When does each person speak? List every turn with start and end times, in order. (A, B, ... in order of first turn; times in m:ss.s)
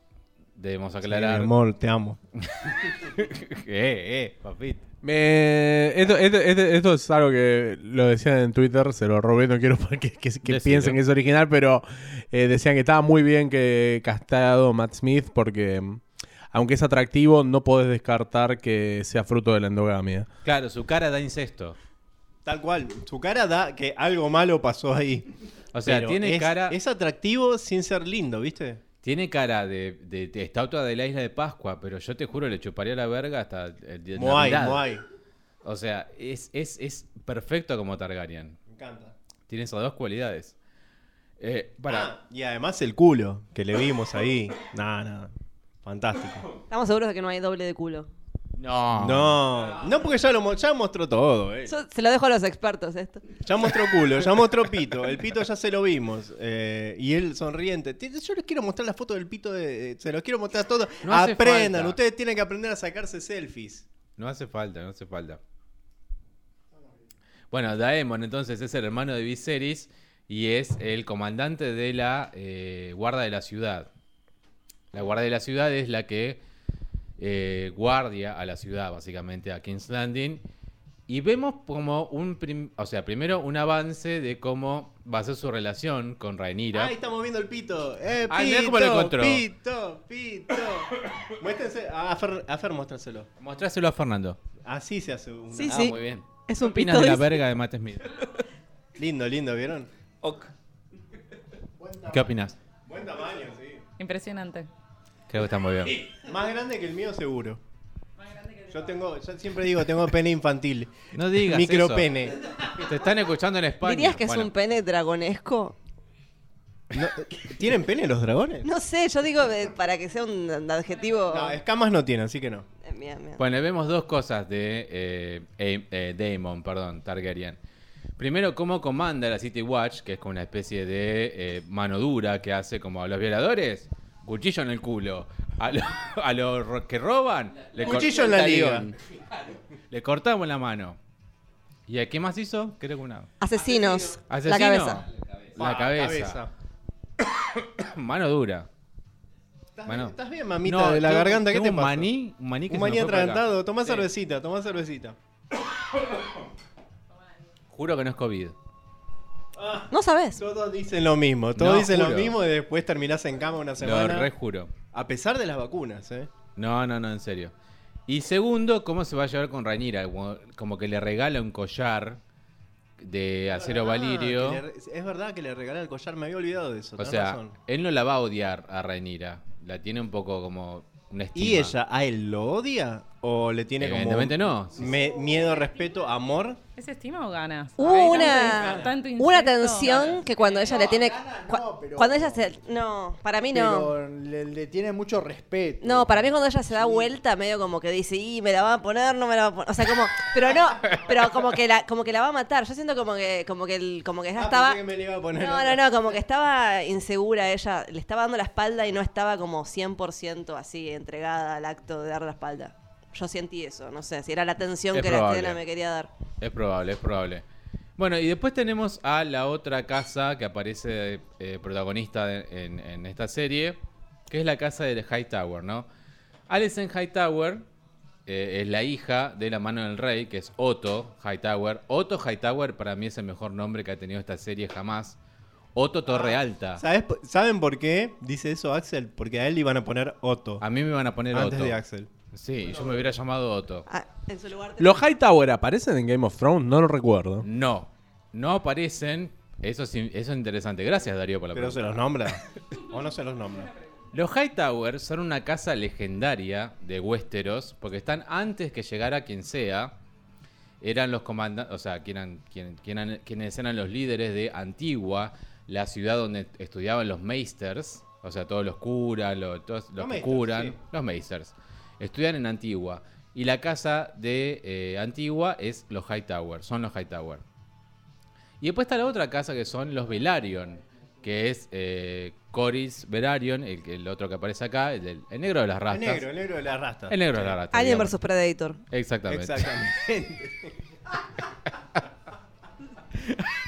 0:00.6-0:01.5 A
0:01.0-0:02.2 B
0:02.4-0:04.8 A
0:05.0-0:20.3 C
0:10.4-0:11.0 A
0:20.4-0:21.8 A
0:22.4-0:25.3 B
0:25.7-0:26.8 A
0:25.8-0:28.8 B
0:29.0-0:34.9 A
0:34.2-0:35.0 B
0:35.6-0:38.6 A
0:38.7-0:39.1 B
0:39.5-0:40.6 A
0:41.4-0:42.1 A
0:41.9-0:46.5 B
0:46.7-0:48.1 D
0:48.6-0:49.4 A
0:49.0-0:51.7 B
0:51.7-0:53.4 D
0:53.4-1:03.9 B
1:01.0-1:02.0 A
1:04.2-1:05.4 A
1:07.5-1:13.9 A
1:14.9-1:16.4 A
1:17.2-1:20.4 A
1:21.1-1:26.9 A
1:26.7-1:33.3 B
1:28.3-1:29.4 A
1:33.4-1:34.4 A
1:34.6-1:36.0 B
1:35.5-1:37.4 D
1:35.7-1:38.2 A
1:39.0-1:39.9 B
1:40.2-1:40.5 E
1:41.8-1:42.5 F
1:42.1-1:42.5 A
1:42.9-1:43.8 B
1:44.0-1:44.7 G
1:45.3-1:46.0 A
1:46.3-1:47.6 B
1:48.2-1:48.9 G
1:48.7-1:52.4 B
1:51.1-1:52.1 A
1:52.6-1:54.5 A
1:53.8-1:55.8 D
1:56.9-1:58.7 B
1:58.6-2:01.6 D
2:01.3-2:02.7 B
2:02.8-2:03.4 D
2:03.4-2:07.6 A
2:08.2-2:18.3 A
2:17.7-2:19.0 E
2:17.8-2:18.9 B
2:19.9-2:21.0 A
2:21.9-2:23.3 A
2:23.4-2:25.0 D
2:23.6-2:24.2 E
2:24.3-2:25.0 A
2:25.1-2:25.6 E
2:25.6-2:26.4 A
2:25.6-2:26.5 B
2:27.5-2:28.7 A
2:29.8-2:32.1 B
2:29.9-2:34.0 A
2:32.7-2:35.2 B
2:37.1-2:37.5 G
2:37.7-2:38.6 A
2:39.6-2:44.3 B
2:39.9-2:40.4 D
2:41.6-2:42.4 A
2:43.8-2:44.7 A
2:44.9-2:46.3 B
2:46.6-2:47.5 A
2:48.1-2:52.2 A
2:53.0-2:54.6 A
2:53.5-2:57.6 B
2:57.0-3:01.8 A
3:01.4-3:06.6 B
3:03.8-3:04.9 A
3:04.7-3:05.9 F
3:06.8-3:10.2 G
3:07.8-3:13.9 D
3:07.9-3:08.9 B
3:09.9-3:10.2 B
3:10.2-3:12.6 F
3:13.5-3:17.2 F
3:15.8-3:24.8 D
3:24.4-3:26.0 B
3:25.4-3:36.1 D
3:34.9-3:35.6 A
3:36.4-3:37.4 A
3:38.0-3:45.9 A
3:46.5-3:47.7 A
3:48.3-3:55.2 A
3:55.8-3:56.8 A
3:56.1-4:00.6 B
4:00.6-4:01.8 A
4:01.3-4:02.1 B
4:02.3-4:03.9 A
4:03.9-4:05.1 D
4:04.8-4:07.5 C
4:07.4-4:12.0 A
4:11.5-4:13.7 B
4:14.1-4:19.9 A
4:20.8-4:37.4 A
4:30.0-4:30.8 B
4:38.6-4:46.2 A
4:45.9-4:47.6 B
4:47.1-4:48.2 A
4:47.7-4:48.8 D
4:48.9-4:49.8 A
4:49.3-4:50.8 B
4:53.2-4:53.5 A